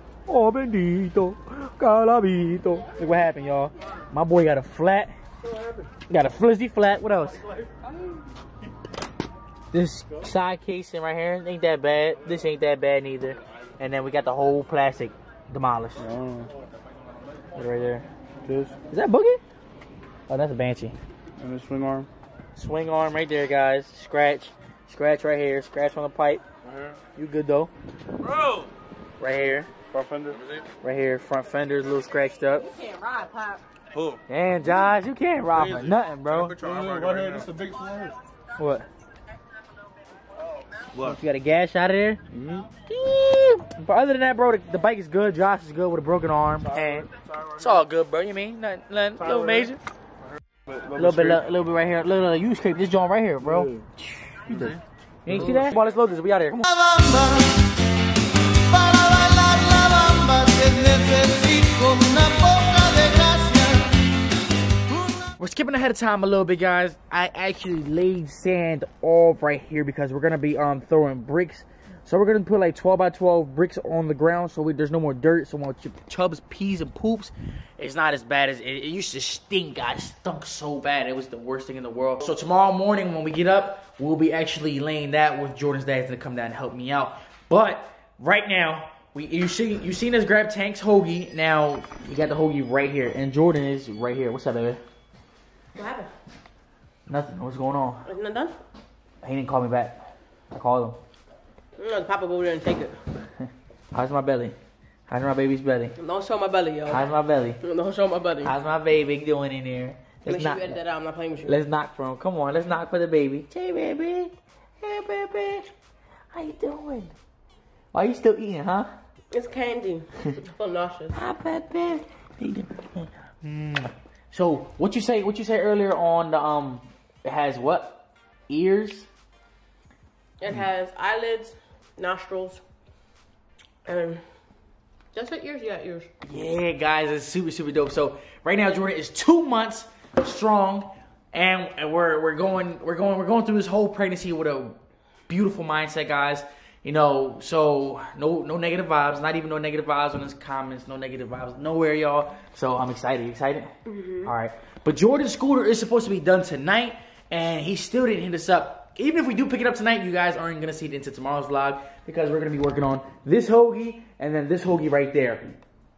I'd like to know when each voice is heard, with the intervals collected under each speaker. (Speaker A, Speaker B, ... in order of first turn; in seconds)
Speaker A: 0.3-5.1, 6.1-7.4, 9.7-16.1, 17.6-18.1, 18.9-19.4, 20.3-21.0, 22.6-26.4, 27.2-27.7, 29.2-29.7, 30.8-32.7, 34.3-36.6, 38.6-38.9, 41.0-47.1, 47.6-49.8, 51.0-54.7, 55.2-56.8, 65.4-94.8, 97.1-98.1, 99.2-101.0, 103.9-104.6, 105.1-106.0, 106.9-107.6, 108.4-110.8, 111.5-115.7, 116.3-117.1, 117.9-118.9, 121.1-129.1, 136.2-144.8, 145.3-165.4
Speaker B: 16.0-16.5, 18.4-18.8, 21.4-22.1, 29.9-30.4, 36.6-38.1, 42.4-42.6, 46.6-47.8, 49.2-49.7, 50.7-51.5, 53.4-53.9, 55.4-55.6
Speaker C: 26.6-27.0, 28.2-28.7, 30.3-30.6, 33.9-34.2, 35.5-37.5, 40.9-41.2, 54.5-54.8
Speaker D: 32.6-33.6, 95.7-96.1, 98.1-98.6, 101.8-103.0, 106.0-107.1, 107.6-108.5, 110.3-111.6, 119.3-121.2, 130.4-132.6, 133.8-134.2, 135.1-136.1, 153.9-154.3
Speaker E: 56.9-57.4, 58.9-63.9